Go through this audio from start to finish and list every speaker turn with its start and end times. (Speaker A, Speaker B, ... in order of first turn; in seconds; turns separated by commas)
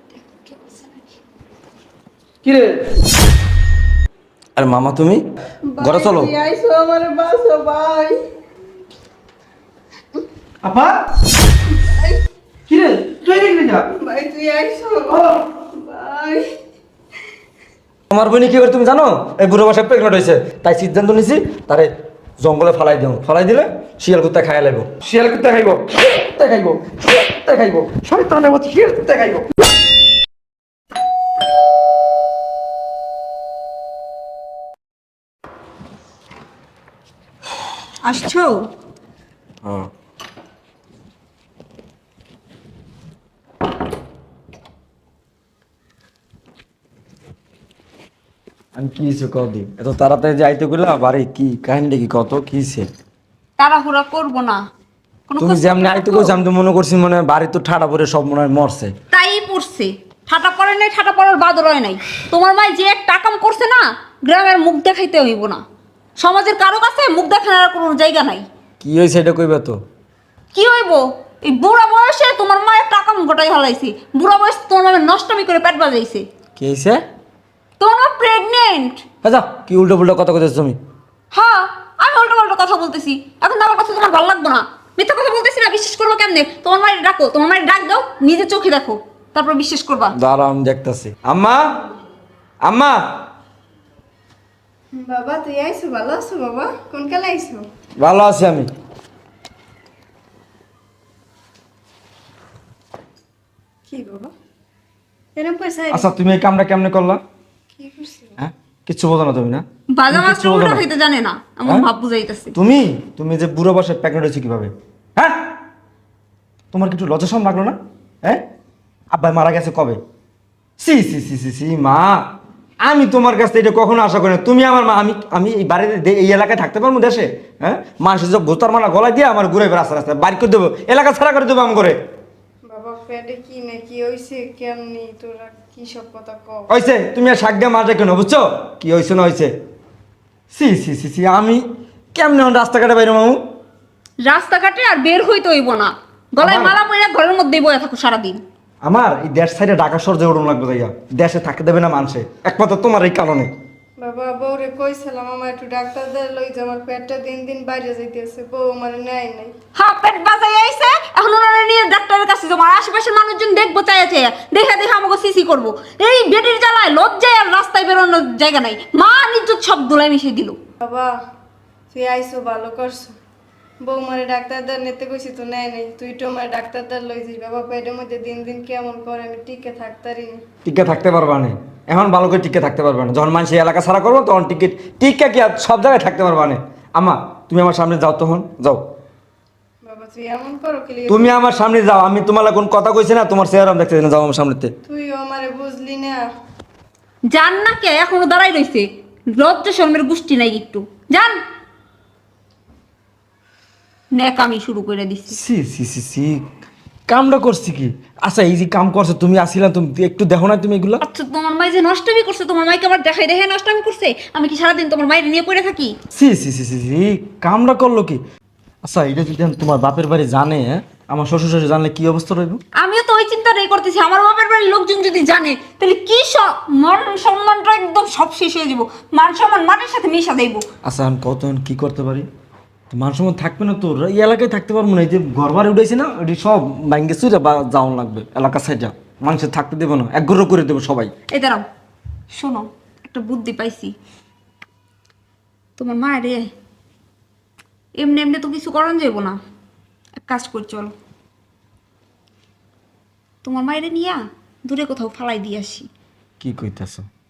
Speaker A: 0.5-0.8, Speaker B: 2.4-3.0, Speaker C: 4.6-5.2, Speaker D: 5.7-8.2, Speaker C: 5.8-6.3, Speaker B: 10.6-10.9, Speaker D: 11.7-12.2, Speaker B: 12.7-13.8, Speaker D: 13.9-16.4, Speaker C: 18.1-24.9, Speaker B: 25.0-29.5, Speaker A: 38.0-38.7, Speaker C: 39.6-39.9, Speaker C: 48.8-52.9, Speaker A: 53.6-54.6, Speaker A: 55.3-56.4, Speaker C: 55.4-58.9, Speaker A: 59.1-65.6, Speaker A: 66.2-68.5, Speaker C: 68.8-69.8, Speaker A: 70.5-76.3, Speaker C: 76.6-77.0, Speaker A: 77.8-79.0, Speaker C: 79.2-80.8, Speaker A: 81.3-90.2, Speaker C: 90.1-91.8, Speaker C: 92.6-93.1, Speaker D: 94.9-97.6, Speaker C: 98.0-98.7, Speaker D: 103.9-104.3, Speaker D: 105.4-106.2, Speaker C: 105.9-107.2, Speaker D: 107.8-108.3, Speaker C: 108.4-110.8, Speaker A: 109.9-112.5, Speaker C: 112.5-115.5, Speaker C: 116.7-118.4, Speaker C: 119.1-120.0, Speaker C: 120.8-122.2, Speaker C: 122.8-132.0, Speaker D: 132.7-136.7, Speaker C: 136.7-139.5, Speaker C: 140.5-141.6, Speaker C: 142.1-143.4, Speaker A: 144.2-148.4, Speaker C: 146.4-146.8, Speaker C: 148.8-153.5, Speaker D: 154.0-159.5, Speaker A: 159.8-170.6, Speaker D: 170.8-171.1, Speaker D: 171.9-173.1, Speaker D: 173.8-180.4, Speaker C: 180.7-188.8, Speaker D: 189.8-191.3, Speaker C: 191.1-194.7, Speaker D: 194.9-196.2, Speaker A: 197.3-201.4, Speaker A: 204.1-205.4, Speaker C: 205.3-206.5, Speaker C: 207.1-211.0, Speaker A: 211.0-216.0, Speaker C: 216.1-218.2, Speaker C: 218.8-222.6, Speaker A: 222.8-230.7, Speaker C: 230.8-232.3, Speaker C: 232.9-241.1, Speaker A: 241.3-241.6, Speaker A: 242.3-243.9, Speaker A: 245.8-246.5, Speaker A: 248.0-249.4, Speaker A: 250.2-250.9, Speaker A: 253.4-255.9, Speaker C: 256.4-257.1